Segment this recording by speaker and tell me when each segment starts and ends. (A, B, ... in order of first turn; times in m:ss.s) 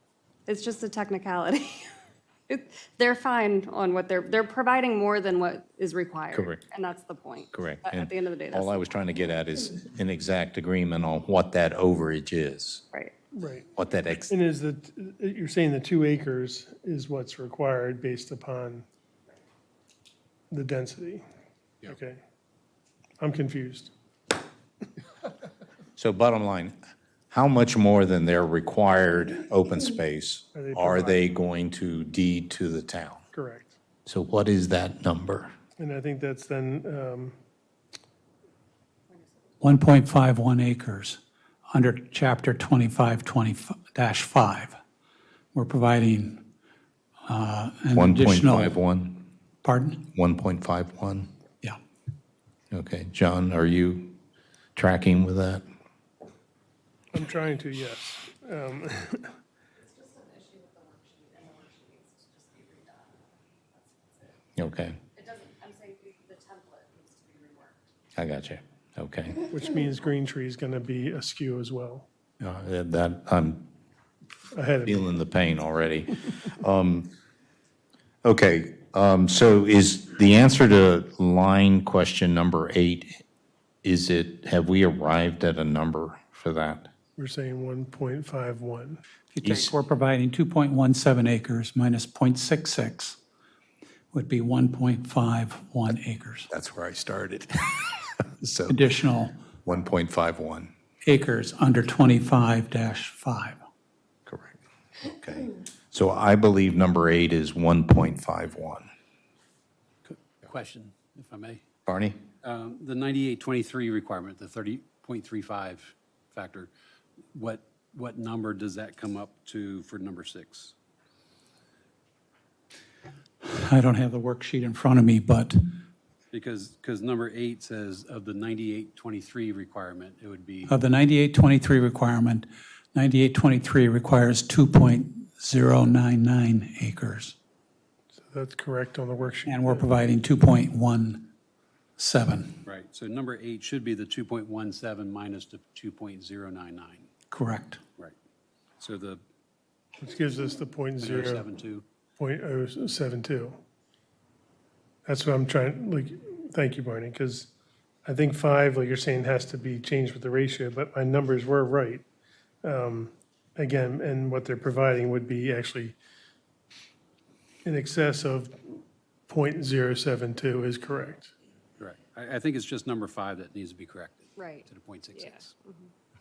0:00.5-0:01.9 A
0:02.5-0:08.9 A
0:06.3-0:06.6 B
0:07.5-0:12.8 B
0:13.3-0:13.7 C
0:13.8-0:14.3 B
0:14.3-0:18.8 C
0:20.5-0:21.2 C
0:21.8-0:22.2 C
0:23.2-0:23.9 C
0:26.0-0:26.8 B
0:27.3-0:33.2 B
0:30.5-0:31.2 C
0:33.3-0:33.8 C
0:34.0-0:35.5 B
0:35.8-0:37.4 C
0:39.6-0:44.8 D
0:45.5-0:46.4 D
0:47.2-0:48.7 D
0:47.9-0:49.2 B
0:49.6-0:50.0 D
0:50.1-0:51.3 B
0:52.7-0:54.2 B
0:54.8-0:55.6 B
0:57.1-0:59.3 C
0:59.8-1:04.4 A
1:04.6-1:05.0 B
1:05.1-1:07.8 A
1:08.2-1:09.4 B
1:09.5-1:12.1 C
1:12.4-1:13.7 B
1:14.5-1:15.1 C
1:14.8-1:17.1 B
1:18.2-1:23.2 B
1:23.8-1:26.9 B
1:27.2-1:29.0 C
1:29.3-1:33.2 D
1:29.4-1:29.7 B
1:34.1-1:36.5 D
1:36.5-1:38.8 B
1:38.6-1:39.3 D
1:39.6-1:40.7 B
1:41.0-1:43.6 D
1:44.3-1:48.9 B
1:50.1-1:51.6 E
1:51.8-1:52.2 B
1:52.4-1:56.7 E
1:57.3-2:00.7 E
2:03.4-2:05.6 D
2:06.3-2:10.7 E
2:10.6-2:17.4 D
2:18.2-2:19.8 C
2:19.4-2:21.3 D
2:22.0-2:22.6 D
2:22.6-2:27.1 E
2:27.3-2:27.8 D
2:28.8-2:29.2 E
2:30.0-2:31.4 C
2:31.0-2:31.8 E
2:32.2-2:33.6 C
2:35.0-2:37.5 C
2:38.0-2:42.0 C
2:42.6-2:46.0 C
2:47.6-2:51.3 C
2:51.8-2:55.5 E
2:54.4-2:55.9 A